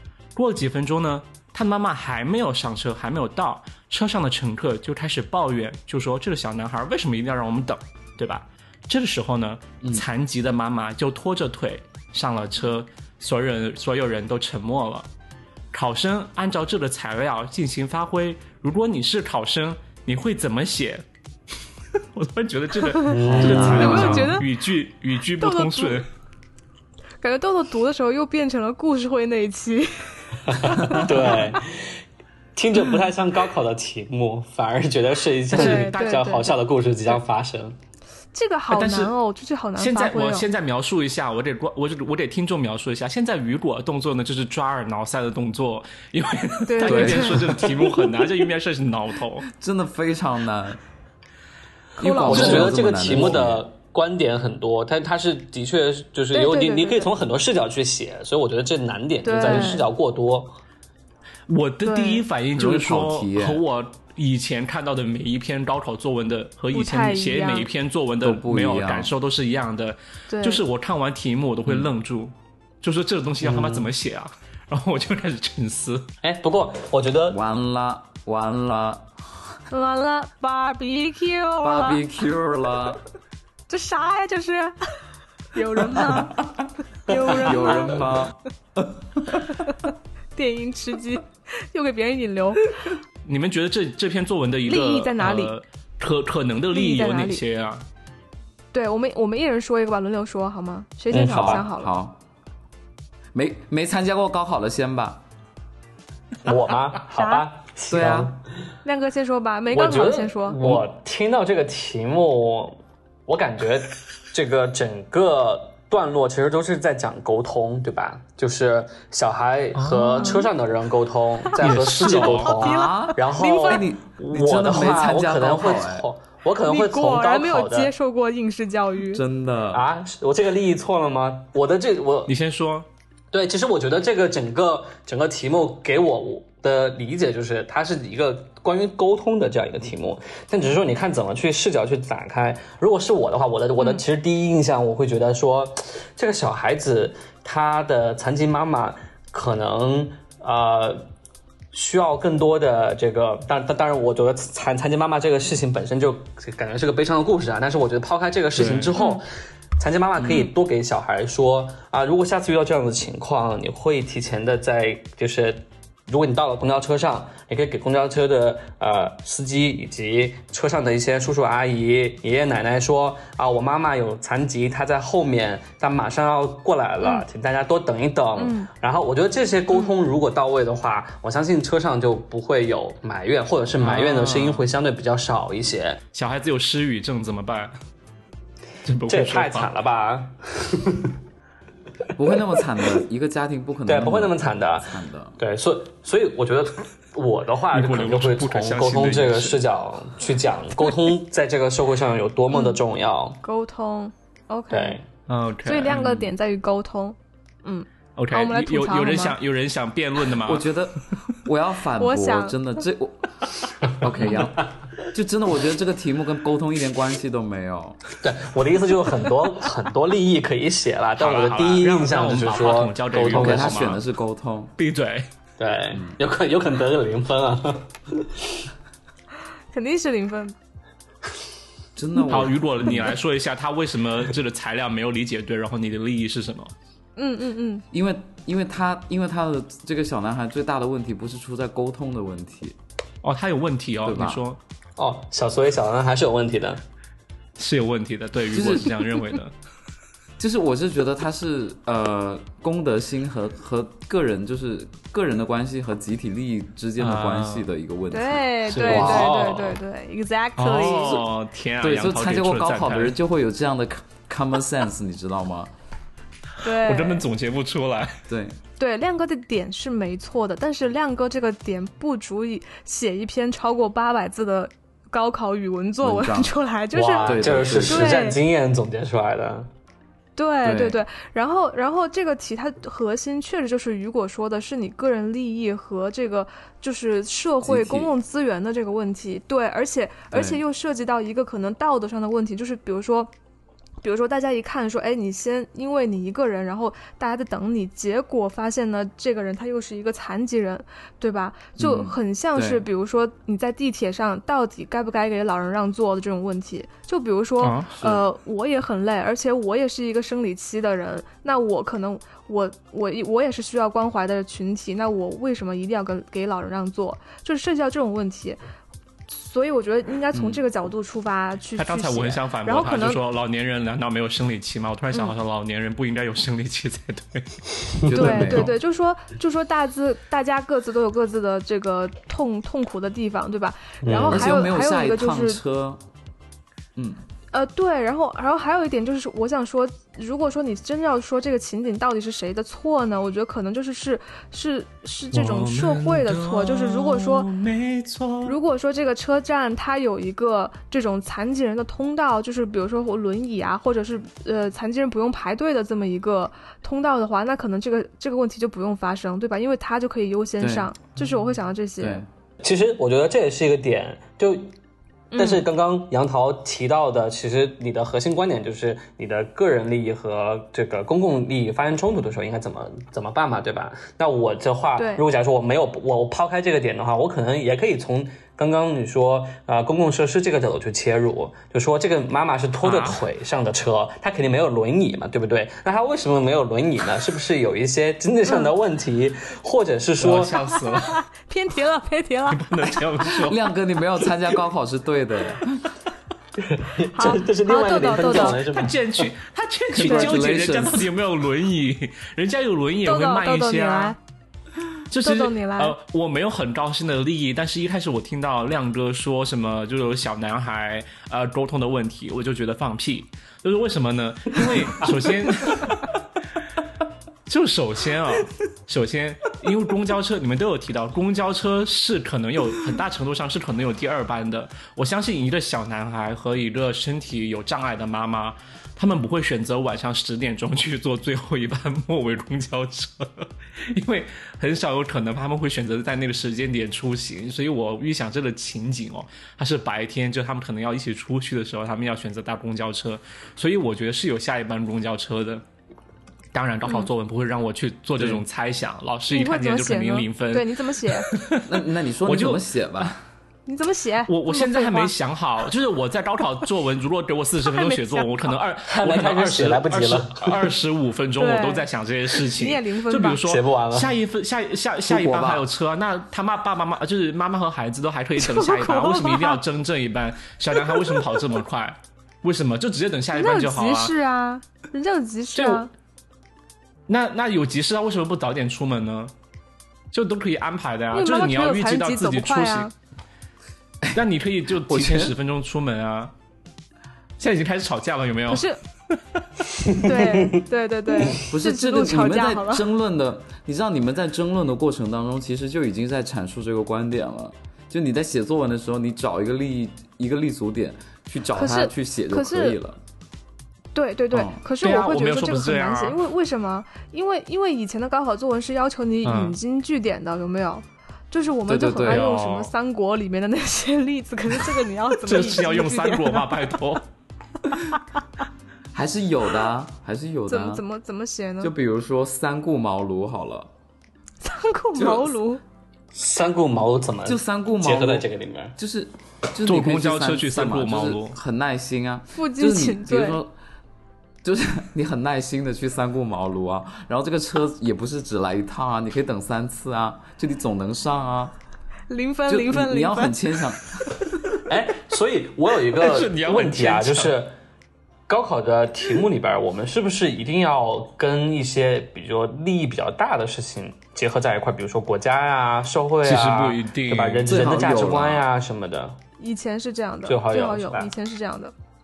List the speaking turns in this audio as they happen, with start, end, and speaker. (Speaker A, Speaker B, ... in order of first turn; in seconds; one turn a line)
Speaker A: 0.4-15.1
Speaker A: 15.7-21.0
Speaker A: 21.9-26.1
Speaker B: 22.9-24.5
Speaker C: 23.1-24.2
Speaker D: 23.2-24.4
Speaker B: 25.4-26.0
Speaker B: 27.2-31.5
Speaker C: 30.5-32.0
Speaker C: 32.6-37.8
Speaker A: 35.5-36.2
Speaker B: 35.5-36.5
Speaker B: 38.3-40.5
Speaker A: 38.7-39.1
Speaker A: 39.8-49.5
Speaker B: 46.6-48.1
Speaker D: 46.8-47.8
Speaker D: 49.5-50.8
Speaker D: 52.0-53.6
Speaker B: 52.0-52.6
Speaker C: 52.2-60.6
Speaker A: 52.3-53.3
Speaker B: 56.3-57.1
Speaker B: 59.2-59.9
Speaker A: 61.5-76.1
Speaker B: 61.8-62.2
Speaker D: 62.6-63.6
Speaker B: 66.7-67.7
Speaker D: 68.2-69.1
Speaker B: 70.3-70.6
Speaker C: 73.4-73.9
Speaker C: 76.2-77.4
Speaker D: 77.3-79.6
Speaker B: 79.7-82.0
Speaker D: 81.6-83.0
Speaker B: 83.7-85.0
Speaker B: 85.5-86.5
Speaker B: 87.0-88.2
Speaker D: 87.2-89.5
Speaker B: 89.7-92.7
Speaker A: 93.2-97.8
Speaker B: 94.7-95.5
Speaker B: 96.7-97.4
Speaker B: 98.7-101.9
Speaker C: 101.1-101.6
Speaker D: 101.3-102.2
Speaker D: 103.3-105.2
Speaker C: 106.4-108.4
Speaker B: 107.2-107.5
Speaker D: 107.9-108.3
Speaker B: 108.8-110.6
Speaker C: 109.7-127.9
Speaker A: 119.8-120.4
Speaker B: 120.2-120.5
Speaker A: 121.6-122.6
Speaker D: 122.5-126.1
Speaker B: 122.5-123.8
Speaker B: 126.6-129.2
Speaker D: 129.1-129.8
Speaker C: 129.7-132.3
Speaker A: 132.3-132.9
Speaker C: 133.3-151.1
Speaker C: 151.7-159.3
Speaker A: 158.6-158.9
Speaker B: 159.0-159.2
Speaker C: 159.8-186.0
Speaker B: 177.0-177.3
Speaker B: 178.4-178.7
Speaker D: 183.8-184.7
Speaker A: 186.1-187.7
Speaker A: 188.8-189.7
Speaker C: 189.1-191.2
Speaker D: 192.2-195.4
Speaker C: 193.9-203.4
Speaker A: 197.7-199.6
Speaker B: 202.5-202.8
Speaker B: 203.4-205.0
Speaker C: 204.7-205.1
Speaker A: 205.3-206.3
Speaker B: 205.7-209.3
Speaker A: 208.2-210.7
Speaker D: 210.4-218.2
Speaker B: 212.0-212.6
Speaker C: 218.2-223.9
Speaker A: 221.2-224.0
Speaker D: 223.3-224.7
Speaker A: 224.8-225.3
Speaker C: 225.6-228.7
Speaker B: 229.7-230.6
Speaker D: 232.0-233.2
Speaker A: 232.2-236.7
Speaker B: 237.2-237.8
Speaker D: 237.9-242.8
Speaker A: 243.2-244.6
Speaker D: 244.1-244.4
Speaker C: 245.0-246.8
Speaker A: 247.6-249.5
Speaker D: 248.5-249.0
Speaker D: 250.4-259.3
Speaker A: 257.0-257.7
Speaker B: 258.1-261.2
Speaker A: 258.7-259.3
Speaker C: 258.9-259.8
Speaker A: 260.6-263.2
Speaker D: 261.8-265.7
Speaker B: 266.6-267.2
Speaker A: 266.8-268.2
Speaker D: 268.3-268.6
Speaker B: 268.8-278.4
Speaker D: 276.0-276.5
Speaker C: 276.9-279.7
Speaker D: 277.2-278.2
Speaker B: 280.4-293.3
Speaker D: 280.6-281.0
Speaker D: 287.6-288.1
Speaker B: 294.0-318.6
Speaker D: 301.8-302.9
Speaker A: 307.6-307.9
Speaker D: 308.0-308.2
Speaker B: 319.3-323.2
Speaker D: 320.3-320.6
Speaker A: 321.8-327.6
Speaker D: 328.1-328.7
Speaker B: 328.1-335.6
Speaker C: 328.1-328.4
Speaker C: 334.0-334.6
Speaker D: 334.3-336.0
Speaker D: 337.0-337.2
Speaker B: 337.5-347.5
Speaker A: 345.3-348.6
Speaker B: 348.4-362.2
Speaker D: 360.6-360.9
Speaker D: 362.0-362.3
Speaker C: 362.6-364.7
Speaker B: 365.3-365.6
Speaker C: 365.4-390.6
Speaker B: 375.0-375.2
Speaker A: 382.8-383.2
Speaker A: 390.2-391.2
Speaker B: 390.8-392.6
Speaker A: 392.5-393.6
Speaker D: 393.2-395.9
Speaker C: 396.6-399.3
Speaker B: 397.1-398.6
Speaker A: 398.3-404.2
Speaker D: 399.9-401.1
Speaker B: 400.1-400.4
Speaker B: 403.1-404.2
Speaker A: 405.1-416.1
Speaker B: 405.2-405.9
Speaker A: 417.5-445.6
Speaker A: 446.5-453.1
Speaker D: 448.2-448.4
Speaker B: 449.3-451.3
Speaker D: 451.6-453.2
Speaker B: 453.7-455.1
Speaker A: 454.3-474.1
Speaker B: 457.6-458.5
Speaker C: 458.9-460.7
Speaker B: 461.4-463.4
Speaker C: 463.4-464.1
Speaker D: 465.1-465.7
Speaker B: 468.4-469.6
Speaker B: 470.8-471.4
Speaker B: 473.3-475.9
Speaker A: 475.6-475.9
Speaker A: 477.1-479.3
Speaker A: 480.1-482.9
Speaker B: 481.1-482.9
Speaker A: 484.1-486.3
Speaker D: 484.9-485.3
Speaker A: 487.4-489.4
Speaker B: 488.5-488.8
Speaker B: 490.0-492.9
Speaker D: 491.4-503.0
Speaker B: 501.5-502.8
Speaker B: 503.9-516.5
Speaker D: 504.3-504.6
Speaker A: 504.8-506.2
Speaker A: 509.2-509.6
Speaker D: 511.7-512.3
Speaker A: 512.1-512.7
Speaker A: 515.2-517.0
Speaker D: 518.9-520.8
Speaker B: 520.5-521.7
Speaker D: 521.6-523.7
Speaker B: 524.4-525.6
Speaker D: 525.0-525.3
Speaker C: 526.1-528.7
Speaker D: 527.2-528.3
Speaker D: 528.8-533.5
Speaker A: 529.6-531.4
Speaker B: 532.3-533.4
Speaker D: 534.4-541.5
Speaker B: 542.1-543.4
Speaker D: 542.5-544.5
Speaker C: 544.7-547.5
Speaker A: 546.0-547.4
Speaker C: 548.3-559.2
Speaker A: 556.2-557.6
Speaker D: 557.5-558.4
Speaker B: 559.4-561.7
Speaker C: 560.3-561.1